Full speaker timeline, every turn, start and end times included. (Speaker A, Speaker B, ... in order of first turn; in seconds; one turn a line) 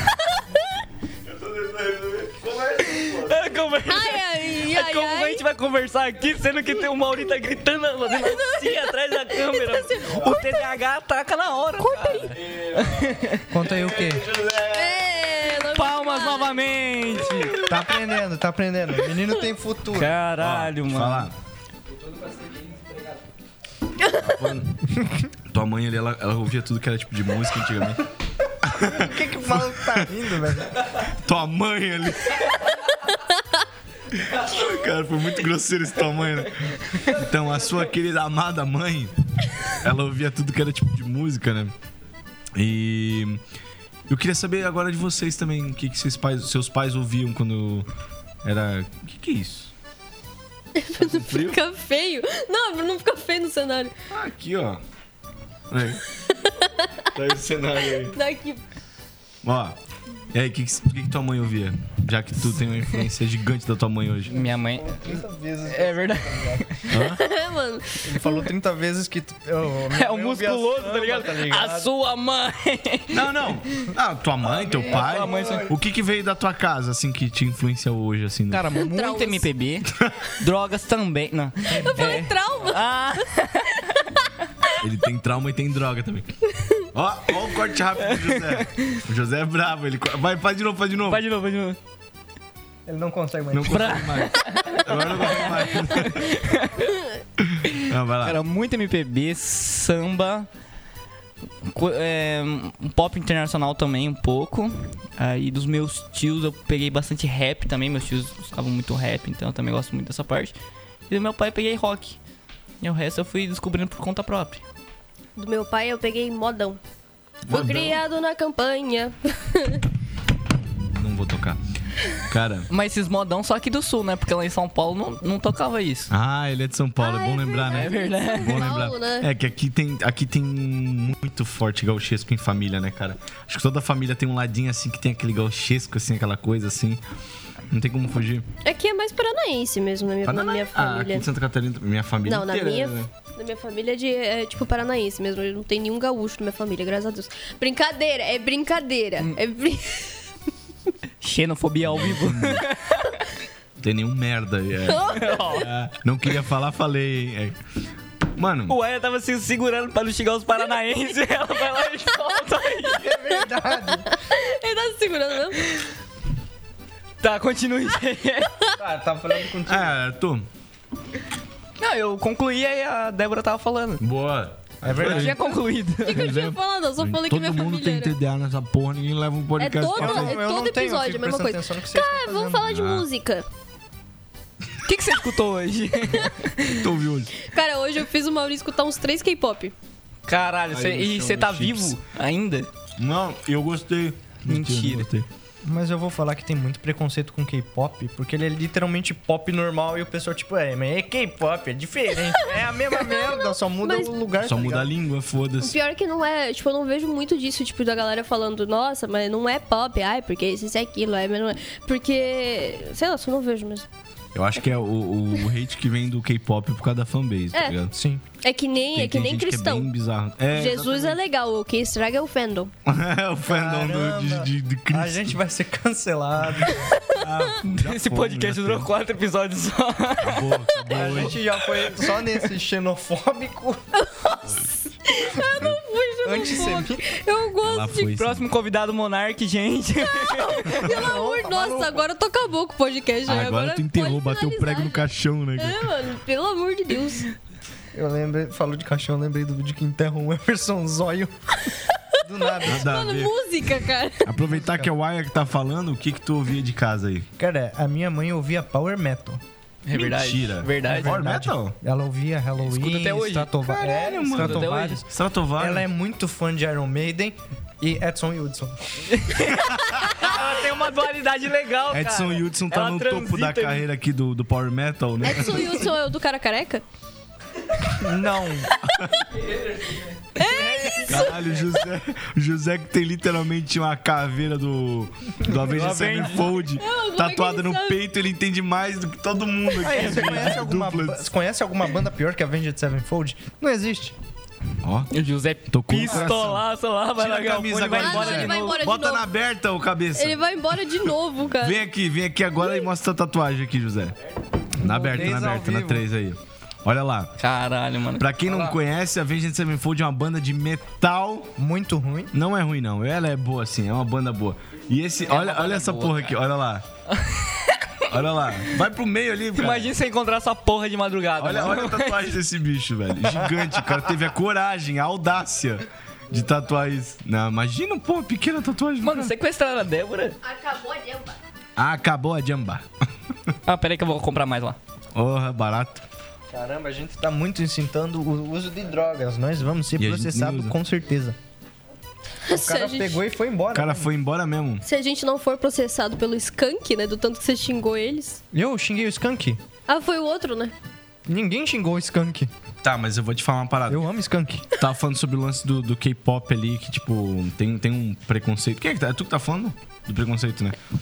Speaker A: 1.2-3.5
Speaker B: 2.9-13.5
Speaker C: 3.9-5.4
Speaker C: 8.1-10.6
Speaker C: 11.8-12.3
Speaker A: 12.3-15.1
Speaker D: 13.5-14.3
Speaker C: 14.7-16.6
Speaker B: 15.7-17.6
Speaker D: 17.6-20.1
Speaker B: 19.9-21.3
Speaker A: 20.4-21.4
Speaker A: 24.2-28.1
Speaker A: 28.6-30.2
Speaker D: 28.7-30.8
Speaker A: 31.0-32.6
Speaker A: 34.2-41.7
Speaker A: 42.5-43.4
Speaker A: 44.1-47.9
Speaker A: 48.4-49.7
Speaker C: 50.8-53.9
Speaker A: 51.0-51.6
Speaker A: 54.1-54.8
Speaker A: 55.7-56.0
Speaker C: 56.3-56.9
Speaker A: 57.1-58.2
Speaker C: 58.0-58.6
Speaker A: 59.4-59.8
Speaker A: 60.3-64.4
Speaker B: 64.3-65.0
Speaker D: 64.3-66.8
Speaker B: 65.7-66.9
Speaker A: 66.9-67.2
Speaker C: 66.9-68.5
Speaker D: 68.0-71.9
Speaker B: 69.9-73.2
Speaker A: 73.1-78.6
Speaker B: 74.8-75.7
Speaker D: 75.1-75.7
Speaker B: 78.5-83.9
Speaker C: 78.7-79.5
Speaker A: 80.0-80.2
Speaker D: 81.7-82.3
Speaker C: 81.7-83.4
Speaker A: 84.8-86.4
Speaker C: 86.5-86.8
Speaker A: 86.9-91.2
Speaker B: 88.1-89.0
Speaker B: 91.0-91.8
Speaker D: 92.9-94.1
Speaker A: 93.5-96.4
Speaker B: 93.7-97.0
Speaker A: 97.4-98.4
Speaker B: 98.2-100.5
Speaker B: 101.6-110.6
Speaker B: 111.1-112.2
Speaker B: 112.8-114.6
Speaker C: 115.4-116.8
Speaker A: 117.5-118.0
Speaker C: 117.5-119.8
Speaker A: 121.0-121.6
Speaker A: 122.3-122.7
Speaker B: 122.7-126.1
Speaker A: 126.1-137.0
Speaker C: 127.0-129.3
Speaker B: 127.7-128.7
Speaker A: 137.7-138.5
Speaker C: 138.6-141.3
Speaker A: 140.2-143.1
Speaker C: 142.2-150.3
Speaker B: 151.2-153.3
Speaker A: 151.8-152.7
Speaker A: 153.8-157.6
Speaker C: 154.8-155.7
Speaker B: 155.1-155.7
Speaker A: 158.3-158.8
Speaker B: 158.7-163.1
Speaker D: 162.9-164.1
Speaker C: 163.4-165.6
Speaker B: 167.2-168.6
Speaker D: 168.8-170.0
Speaker A: 169.7-170.5
Speaker B: 171.8-174.0
Speaker A: 174.0-175.4
Speaker D: 174.8-175.5
Speaker B: 175.0-176.3
Speaker C: 176.0-178.2
Speaker A: 176.1-180.4
Speaker C: 179.6-183.4
Speaker D: 179.9-182.8
Speaker A: 182.7-183.1
Speaker B: 184.8-186.9
Speaker A: 186.7-187.3
Speaker C: 187.4-189.7
Speaker B: 190.3-192.7
Speaker A: 190.7-191.9
Speaker A: 193.0-195.3
Speaker B: 194.5-195.1
Speaker D: 195.7-204.9
Speaker C: 203.0-204.1
Speaker A: 204.4-205.8
Speaker C: 205.6-213.9
Speaker A: 214.3-217.9
Speaker D: 217.9-218.2
Speaker C: 218.4-219.9
Speaker A: 218.9-221.2
Speaker C: 220.5-222.7
Speaker A: 222.9-225.4
Speaker D: 223.5-226.9
Speaker A: 227.2-228.9
Speaker B: 227.6-230.5
Speaker A: 230.2-231.4
Speaker D: 230.9-233.8
Speaker C: 233.9-238.2
Speaker D: 236.2-237.2
Speaker A: 237.6-238.5
Speaker B: 238.1-240.9
Speaker C: 240.1-247.3
Speaker D: 240.8-242.1
Speaker A: 243.3-245.9
Speaker D: 247.9-251.3
Speaker D: 252.2-252.9
Speaker C: 252.5-254.3
Speaker A: 252.6-253.3
Speaker A: 254.2-257.3
Speaker D: 254.4-254.9
Speaker D: 257.4-259.4
Speaker B: 259.9-261.2
Speaker A: 259.9-261.8
Speaker D: 260.8-269.1
Speaker B: 262.6-263.6
Speaker A: 263.7-265.9
Speaker B: 264.3-265.0
Speaker B: 269.1-273.9
Speaker A: 269.6-270.2
Speaker A: 271.9-275.9
Speaker C: 275.2-276.9
Speaker D: 277.9-278.7
Speaker B: 279.4-280.1
Speaker C: 280.4-281.9
Speaker D: 280.5-281.0
Speaker A: 281.1-291.2
Speaker B: 285.6-286.6
Speaker C: 286.8-288.0
Speaker D: 289.8-294.2
Speaker A: 294.8-295.1
Speaker B: 295.1-298.8
Speaker A: 295.7-296.6
Speaker D: 296.0-296.4
Speaker A: 297.2-300.5
Speaker C: 297.9-299.3
Speaker C: 300.1-301.8
Speaker A: 301.6-304.2
Speaker C: 302.6-302.9
Speaker A: 304.8-307.3
Speaker D: 304.8-306.1
Speaker B: 307.4-308.4
Speaker A: 308.2-311.5
Speaker D: 311.6-312.3
Speaker A: 312.3-316.9
Speaker B: 315.2-316.4
Speaker B: 317.1-318.8
Speaker A: 318.1-319.9
Speaker B: 319.6-322.3
Speaker A: 321.4-329.3
Speaker D: 323.3-324.0
Speaker B: 329.0-330.4
Speaker C: 330.4-331.4
Speaker A: 331.8-332.9
Speaker B: 333.7-334.8
Speaker A: 335.1-336.1
Speaker D: 336.5-341.4
Speaker A: 340.0-340.8
Speaker C: 342.4-343.2
Speaker D: 342.5-344.1
Speaker A: 343.7-344.8
Speaker C: 344.8-348.4
Speaker D: 348.5-349.6
Speaker C: 349.9-350.7
Speaker D: 351.3-352.5
Speaker A: 352.8-354.0
Speaker D: 353.9-354.7
Speaker A: 354.7-360.8